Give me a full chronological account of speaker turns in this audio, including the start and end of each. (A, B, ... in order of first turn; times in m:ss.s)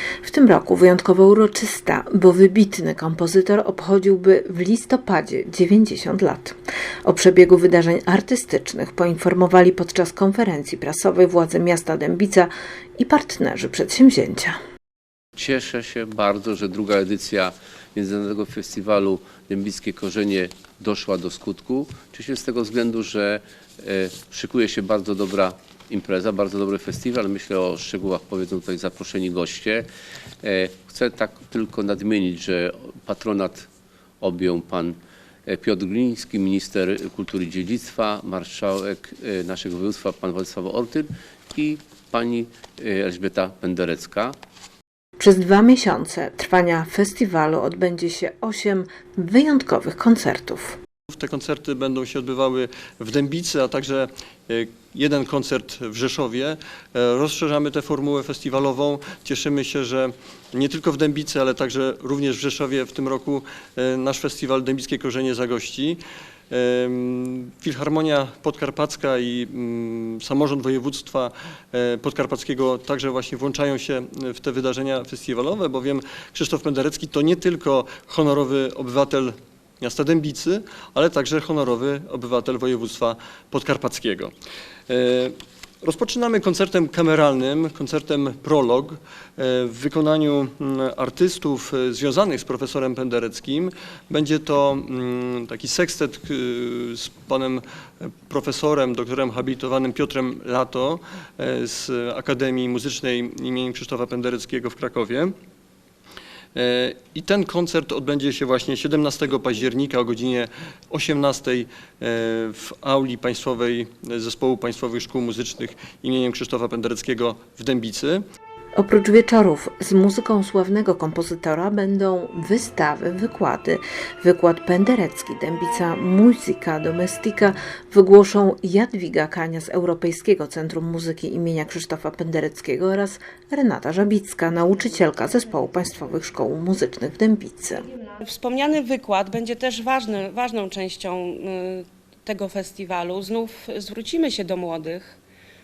0:00.2-0:14.6 A
0:15.4-0:29.8 B
0:30.4-0:33.7 B
0:34.2-0:44.3 B
0:45.2-0:50.8 A
0:51.1-1:24.3 C
1:24.9-1:45.3 C
1:46.5-1:58.2 C
1:58.8-2:17.8 A
2:18.2-2:25.2 D